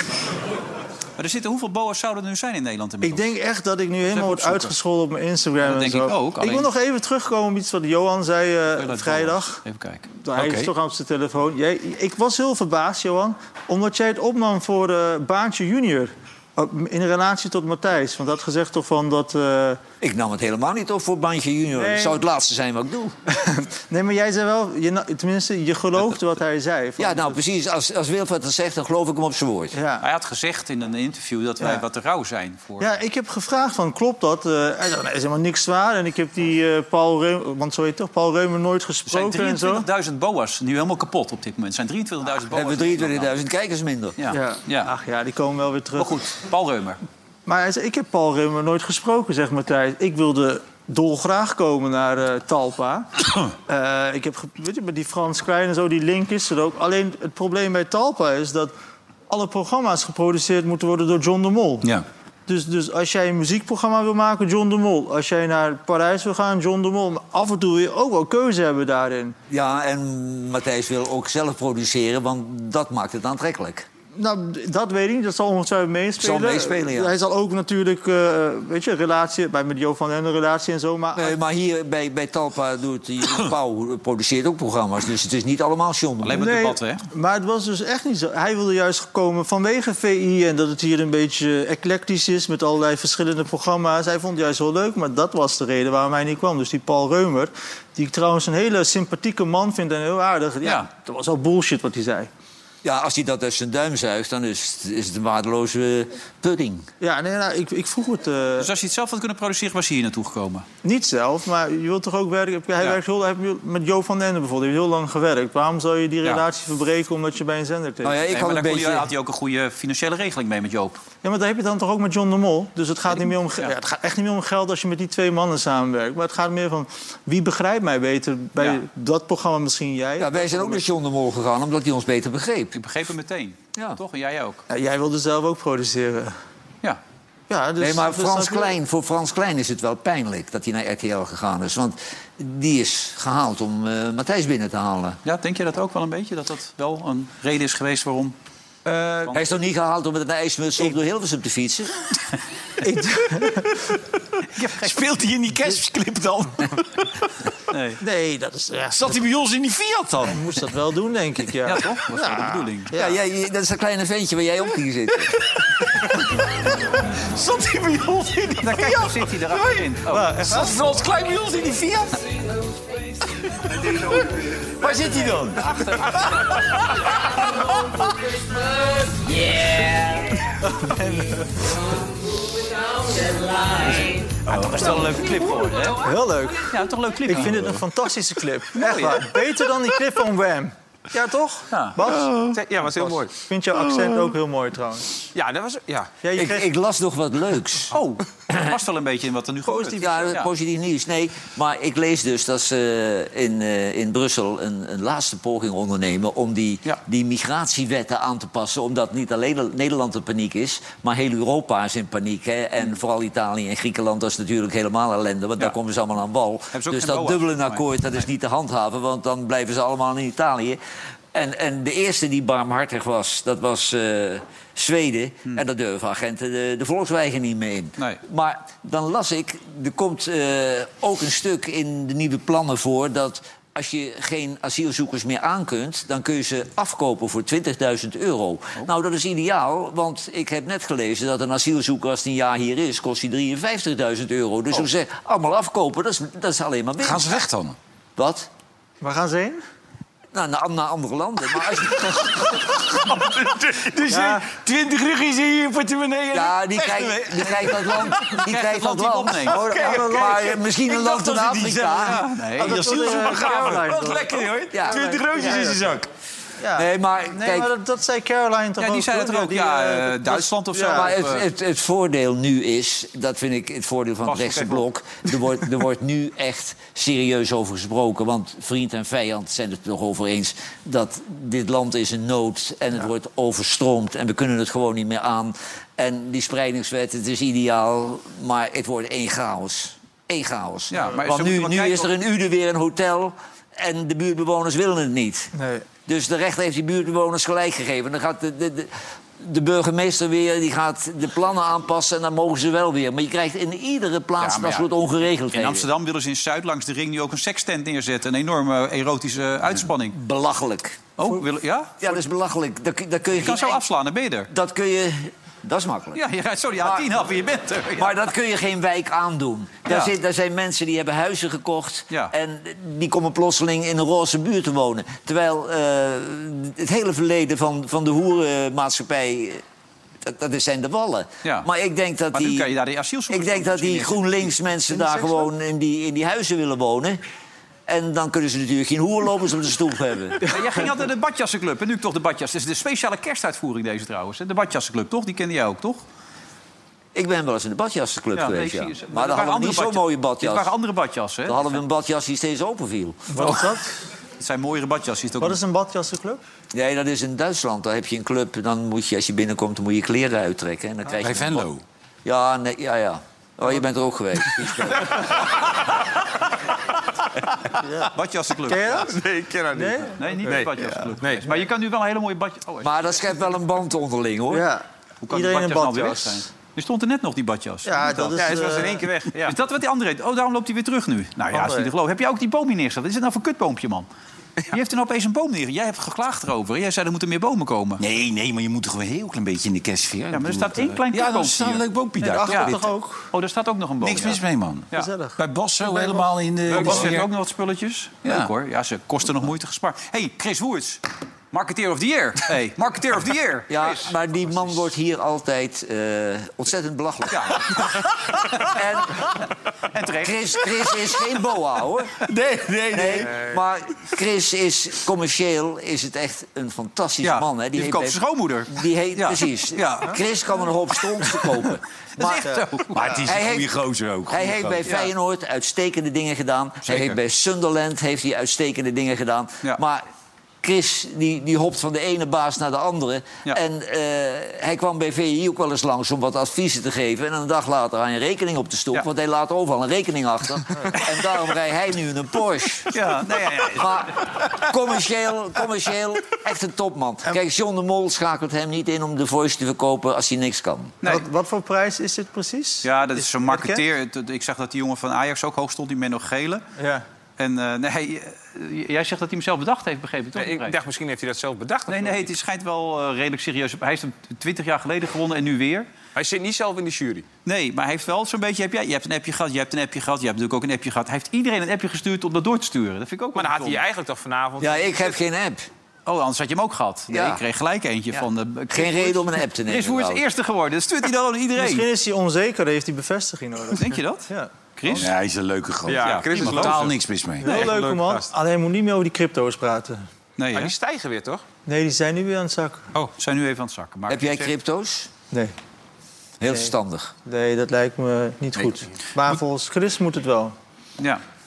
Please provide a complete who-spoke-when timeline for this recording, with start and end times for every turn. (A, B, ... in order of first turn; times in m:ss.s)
0:01.2-0:03.3 A
0:03.0-0:09.6 B
0:04.1-0:04.7 A
0:05.6-0:06.7 A
0:08.7-0:10.1 A
0:10.2-0:19.8 B
0:10.4-0:10.7 C
0:20.0-0:23.1 D
0:21.8-0:22.2 B
0:23.3-0:27.4 B
0:27.0-0:29.8 D
0:29.7-0:30.0 B
0:30.0-0:32.9 A
0:32.8-0:39.9 B
0:39.1-0:43.3 A
0:42.4-0:44.2 D
0:44.2-0:44.9 A
0:44.3-0:46.2 B
0:46.0-0:47.0 A
0:47.4-0:58.7 B
0:59.3-1:01.9 B
1:02.5-1:09.4 B
1:09.5-1:13.9 D
1:14.2-1:21.4 B
1:16.2-1:17.1 D
1:21.1-1:26.4 D
1:26.2-1:27.0 A
1:26.3-1:42.3 B
1:40.6-1:40.9 A
1:42.8-1:46.9 D
1:47.0-1:48.7 B
1:48.6-1:50.6 A
1:50.8-1:58.2 B
1:58.0-1:59.1 D
1:58.3-2:01.0 A
2:01.2-2:10.8 B
2:03.1-2:03.7 A
2:08.6-2:08.8 A
2:10.2-2:12.8 D
2:12.7-2:14.6 A
2:13.7-2:14.0 D
2:14.7-2:16.3 B
2:17.5-2:18.7 B
2:17.8-2:25.2 D
2:25.2-2:28.3 A
2:29.3-2:31.9 D
2:32.8-2:33.9 B
2:34.5-2:35.0 A
2:34.8-2:37.1 C
2:37.7-2:38.0 A
2:38.0-2:39.1 B
2:38.9-2:40.4 C
2:40.2-2:43.2 B
2:41.6-2:42.9 A
2:42.9-2:45.4 D
2:47.2-2:52.2 C
2:48.6-2:50.5 A
2:50.1-2:50.7 B
2:53.8-2:58.1 C
3:00.7-3:01.7 B
3:04.4-3:06.1 A
3:04.6-3:04.9 C
3:06.0-3:06.7 B
3:06.6-3:07.8 A
3:07.2-3:15.3 B
3:08.7-3:09.3 A
3:11.7-3:12.0 A
3:12.5-3:13.3 E
3:15.3-3:16.1 E
3:16.2-3:16.7 B
3:16.3-3:17.9 D
3:17.9-3:20.5 A
3:19.6-3:20.4 B
3:20.0-3:40.8 D
3:36.7-3:37.9 A
3:41.3-4:07.4 D
4:07.0-4:07.8 C
4:08.2-4:08.5 D
4:09.0-4:09.6 B
4:10.3-4:12.6 D
4:12.5-4:18.3 C
4:14.1-4:14.4 B
4:16.3-4:22.2 D
4:18.2-4:19.6 A
4:19.5-4:20.5 B
4:19.5-4:26.1 C
4:22.0-4:23.0 A
4:22.6-4:25.9 B
4:24.7-4:25.1 D
4:26.6-4:31.1 B
4:26.7-4:27.7 D
4:28.8-4:31.5 A
4:30.8-4:55.5 D
4:50.9-4:52.1 A
4:55.6-4:55.8 B
4:56.0-5:05.9 D
5:04.4-5:04.9 A
5:05.5-5:10.2 A
5:10.1-5:11.4 D
5:11.2-5:12.2 A
5:12.0-5:13.8 D
5:13.3-5:14.5 A
5:14.5-5:16.2 D
5:16.1-5:18.2 A
5:16.8-5:17.2 D
5:18.0-5:29.6 D
5:19.9-5:20.1 A
5:30.2-5:32.7 D
5:32.3-5:34.5 A
5:33.3-5:37.2 D
5:34.9-5:35.5 B
5:37.9-5:40.6 D
5:40.4-5:46.0 A
5:47.1-5:50.7 D
5:48.3-5:51.7 A
5:51.4-5:53.6 D
5:53.3-5:53.9 B
5:54.4-5:55.6 A
5:55.4-5:56.4 B
5:56.7-6:01.7 D
6:01.2-6:01.8 C
6:02.2-6:05.3 D
6:07.8-6:09.2 B
6:08.1-6:09.1 A
6:09.1-6:11.5 E
6:09.7-6:10.6 B
6:10.2-6:13.0 A
6:12.8-6:14.7 D
6:14.5-6:16.4 B
6:15.2-6:18.5 A
6:17.8-6:19.0 B
6:18.3-6:19.6 E
6:19.4-6:24.1 A
6:21.5-6:21.9 B
6:24.7-6:28.0 A
6:28.0-6:32.9 C
6:30.3-6:31.8 A
6:32.2-6:33.3 B
6:32.4-6:32.8 A
6:33.3-6:35.1 A
6:34.0-6:37.3 C
6:34.9-6:37.1 B
6:36.7-6:44.7 A
6:38.2-6:38.5 C
6:43.7-6:47.8 D
6:47.3-6:48.8 A
6:48.6-6:49.3 D
6:49.9-6:50.4 A
6:50.2-6:52.1 D
6:52.2-6:53.3 C
6:52.9-7:02.4 D
6:57.2-7:00.2 A
7:02.2-7:03.2 A
7:02.4-7:03.2 B
7:02.9-7:04.9 C
7:03.2-7:03.7 D
7:04.3-7:10.0 D
7:06.8-7:07.2 A
7:10.6-7:23.0 D
7:22.9-7:24.1 A
7:23.6-7:31.0 D
7:31.0-7:33.8 B
7:32.8-7:36.6 A
7:36.8-7:37.0 B
7:37.4-7:40.8 A
7:40.3-7:42.3 E
7:41.9-7:45.9 A
7:46.1-7:47.2 E
7:47.4-7:53.8 A
7:53.4-7:55.2 E
7:54.6-7:55.7 D
7:56.0-8:01.8 A
7:57.1-7:57.4 D
7:58.1-8:00.2 D
8:01.6-8:05.0 B
8:03.7-8:05.1 A
8:04.9-8:07.7 C
8:05.9-8:08.3 E
8:06.0-8:06.9 A
8:07.4-8:10.0 B
8:07.4-8:07.7 A
8:10.4-8:10.7 A
8:10.5-8:11.4 E
8:11.6-8:12.9 B
8:13.2-8:14.5 A
8:14.1-8:15.1 D
8:16.4-8:17.1 D
8:16.5-8:16.7 B
8:17.2-8:20.5 B